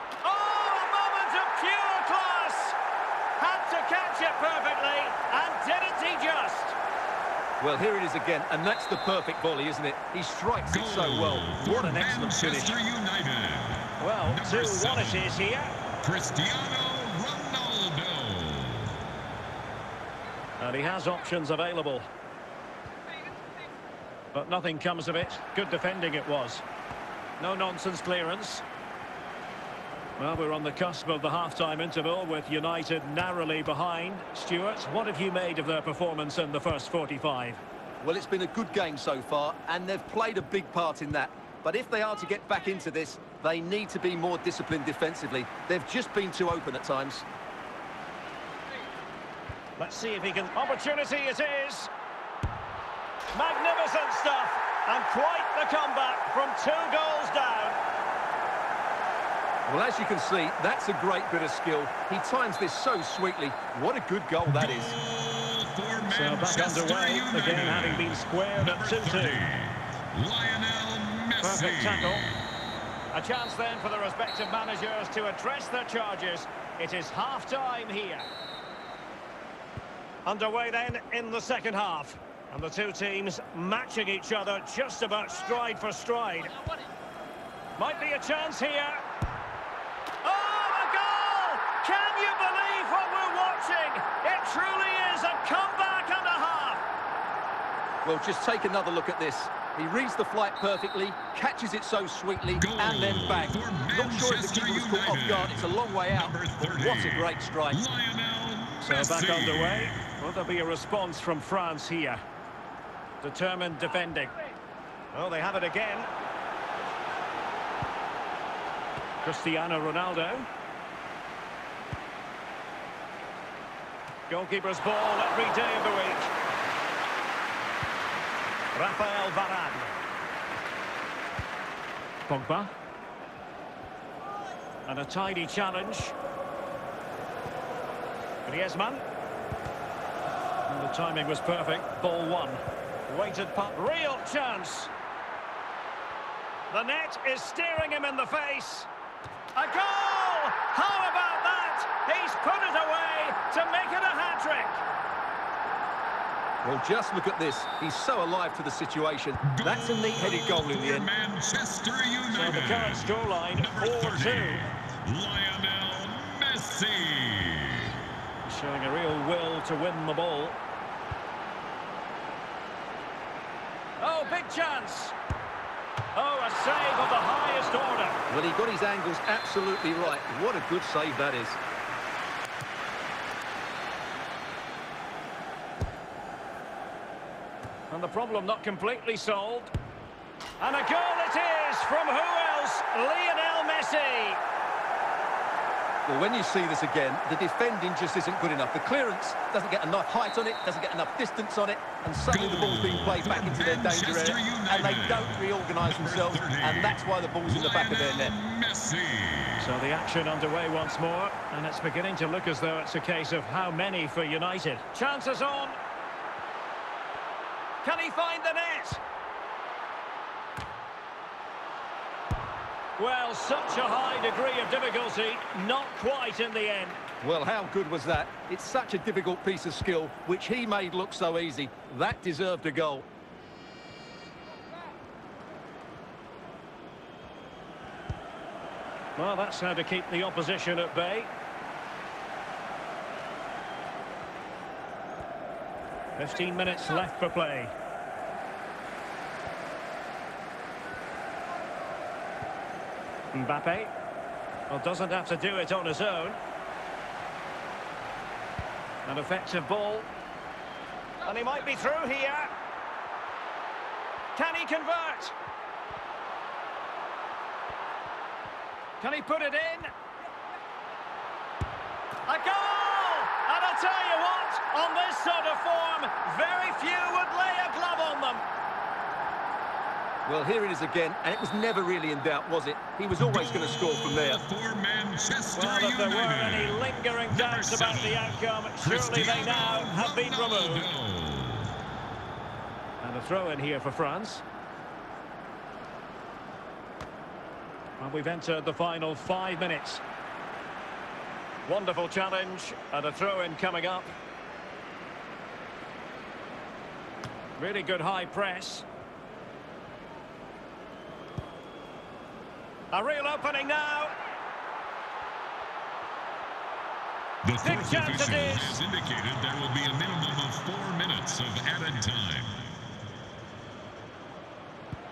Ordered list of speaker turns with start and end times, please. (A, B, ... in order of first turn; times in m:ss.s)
0:00.2-0:02.8 A
0:03.4-0:06.8 A
0:07.6-0:12.8 B
0:10.6-0:15.4 C
0:14.0-0:15.8 A
0:16.0-0:18.9 C
0:20.6-0:22.1 A
0:24.3-0:26.6 A
0:27.4-0:28.6 A
0:30.2-0:37.6 A
0:38.0-0:47.2 B
0:49.8-0:51.9 A
0:53.3-0:57.8 A
0:59.7-1:05.0 B
1:04.5-1:12.3 C
1:06.1-1:09.4 A
1:11.4-1:12.2 A
1:13.1-1:18.3 A
1:20.2-1:26.6 A
1:27.8-1:29.0 A
1:30.2-1:36.8 A
1:38.0-1:47.8 B
1:42.5-1:50.0 C
1:48.8-1:52.2 A
1:53.2-1:54.3 A
1:55.1-1:56.1 A
1:59.2-2:00.5 A
2:04.3-2:06.3 A
2:08.7-2:09.9 A
2:12.3-2:12.7 A
2:14.8-2:16.1 A
2:18.4-2:19.0 A
2:20.7-2:24.9 A
2:26.7-2:28.9 A
2:29.5-2:34.8 A
2:36.6-2:41.1 B
2:39.5-2:48.0 C
2:42.3-2:44.7 A
2:48.4-2:50.6 A
2:54.0-2:55.1 A
2:56.1-2:58.2 A
2:58.3-3:01.6 B
3:07.9-3:09.7 A
3:10.6-3:14.4 A
3:16.0-3:28.4 B
3:22.1-3:29.7 C
3:29.6-3:35.8 A
3:37.8-3:39.0 A
3:43.0-3:47.0 A
3:47.2-3:53.1 B
3:59.2-4:01.3 A
4:06.2-4:07.7 A
4:13.3-4:13.9 A
4:14.7-4:16.4 A
4:19.0-4:20.1 A
4:21.2-4:22.5 A
4:24.4-4:25.3 A
4:29.0-4:29.9 A
4:32.2-4:38.4 A
4:40.2-4:44.4 B
4:43.3-4:51.7 C
4:45.6-4:50.9 A
4:53.0-4:54.4 A
4:58.0-5:00.0 A
5:01.6-5:04.1 A
5:07.6-5:08.8 A
5:12.9-5:14.1 A
5:17.4-5:22.7 C
5:17.6-5:18.8 A